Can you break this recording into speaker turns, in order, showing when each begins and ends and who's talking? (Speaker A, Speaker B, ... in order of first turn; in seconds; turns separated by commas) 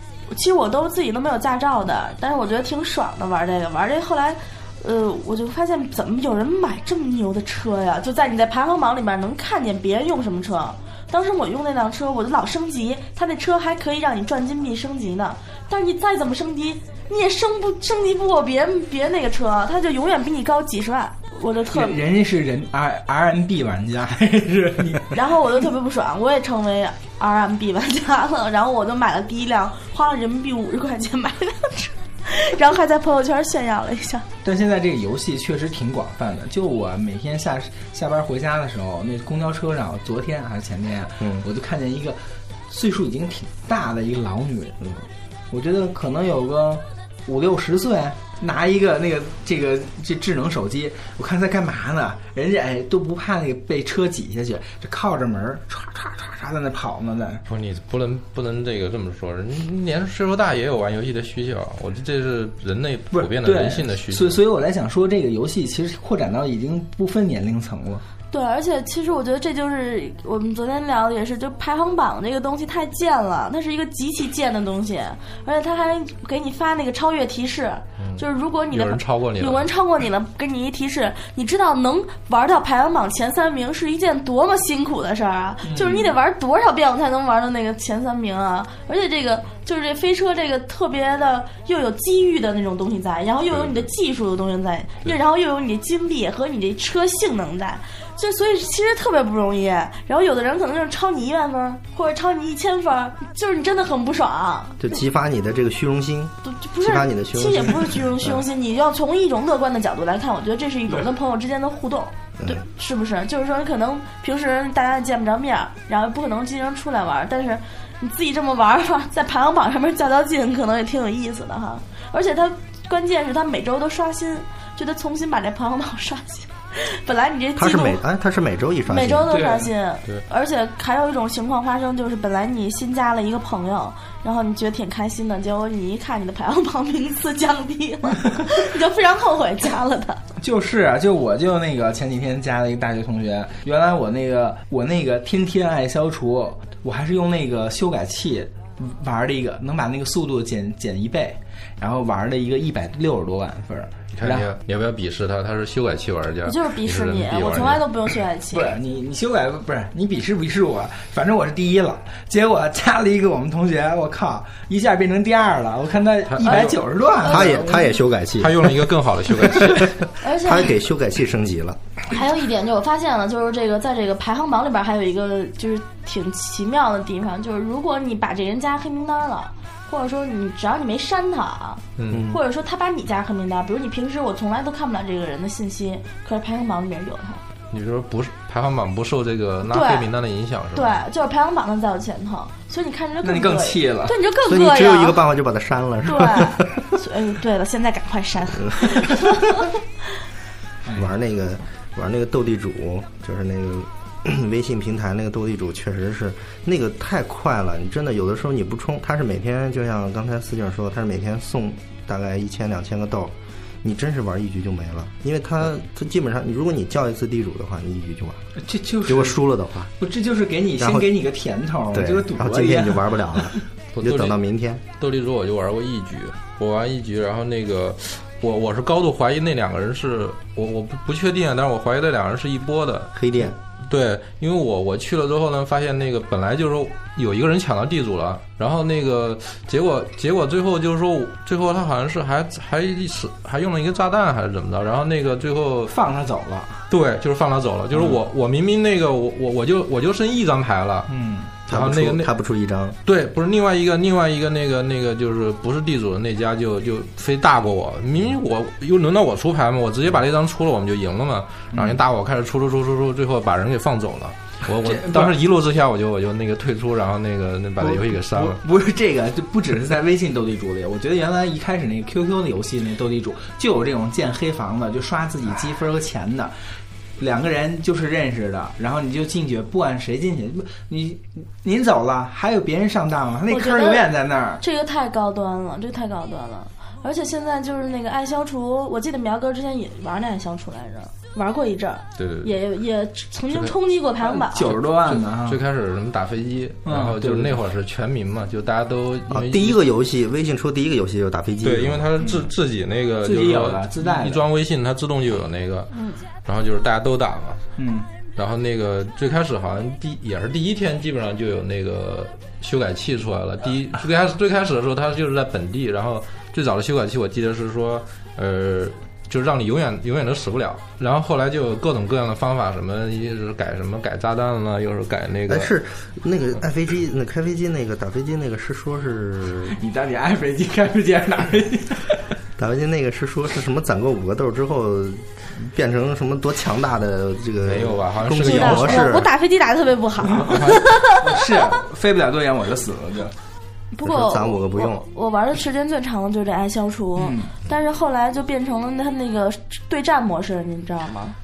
Speaker A: 0.3-22.0, Speaker B: 21.7-25.2, Speaker A: 25.1-34.2, Speaker B: 34.4-44.8, Speaker B: 45.5-57.4, Speaker C: 57.5-64.4, Speaker B: 63.1-68.0, Speaker A: 68.3-104.8, Speaker C: 78.0-79.7, Speaker B: 85.6-86.2, Speaker C: 93.5-93.8, Speaker D: 104.8-108.4, Speaker A: 106.4-128.0, Speaker D: 127.5-129.3, Speaker A: 128.9-140.2, Speaker B: 129.3-129.7, Speaker B: 140.4-154.5, Speaker C: 154.1-157.8, Speaker A: 156.4-158.8, Speaker B: 158.5-167.9, Speaker C: 166.2-166.8, Speaker A: 166.4-167.8, Speaker D: 167.2-171.8, Speaker C: 168.4-170.0, Speaker A: 170.2-170.7, Speaker A: 172.1-187.4, Speaker C: 181.9-182.3, Speaker D: 182.1-182.4, Speaker C: 187.7-191.0, Speaker A: 189.6-190.1, Speaker A: 190.7-195.2, Speaker B: 193.2-194.2, Speaker D: 194.4-196.9, Speaker A: 196.0-199.5, Speaker B: 200.8-201.1, Speaker D: 200.9-218.4, Speaker B: 218.6-219.4, Speaker D: 219.1-219.9, Speaker B: 220.0-223.6, Speaker D: 220.8-221.1, Speaker D: 221.9-224.8, Speaker C: 223.9-224.4, Speaker C: 225.0-245.9, Speaker D: 233.2-233.5, Speaker B: 245.9-246.9, Speaker C: 246.9-251.1, Speaker B: 247.9-248.2, Speaker B: 251.1-251.5, Speaker C: 251.7-252.3, Speaker D: 251.7-253.0, Speaker C: 253.1-268.6, Speaker B: 261.7-262.0, Speaker B: 264.8-265.4, Speaker B: 267.8-276.5, Speaker B: 277.2-284.6, Speaker A: 283.5-294.7, Speaker C: 292.1-292.5, Speaker C: 293.5-293.7, Speaker B: 294.2-295.6, Speaker C: 294.6-299.8, Speaker B: 296.8-297.6, Speaker D: 299.3-302.1, Speaker C: 301.6-305.9, Speaker B: 302.2-302.5, Speaker B: 303.2-304.4, Speaker A: 305.9-306.2, Speaker C: 306.4-307.6, Speaker B: 307.8-308.1, Speaker C: 308.3-325.7, Speaker D: 325.5-329.8, Speaker B: 329.7-332.2, Speaker D: 332.6-339.3, Speaker C: 337.6-339.0, Speaker A: 338.4-341.6, Speaker C: 340.4-340.8, Speaker B: 341.2-343.3, Speaker A: 343.9-351.4, Speaker D: 344.0-345.0, Speaker B: 347.2-347.5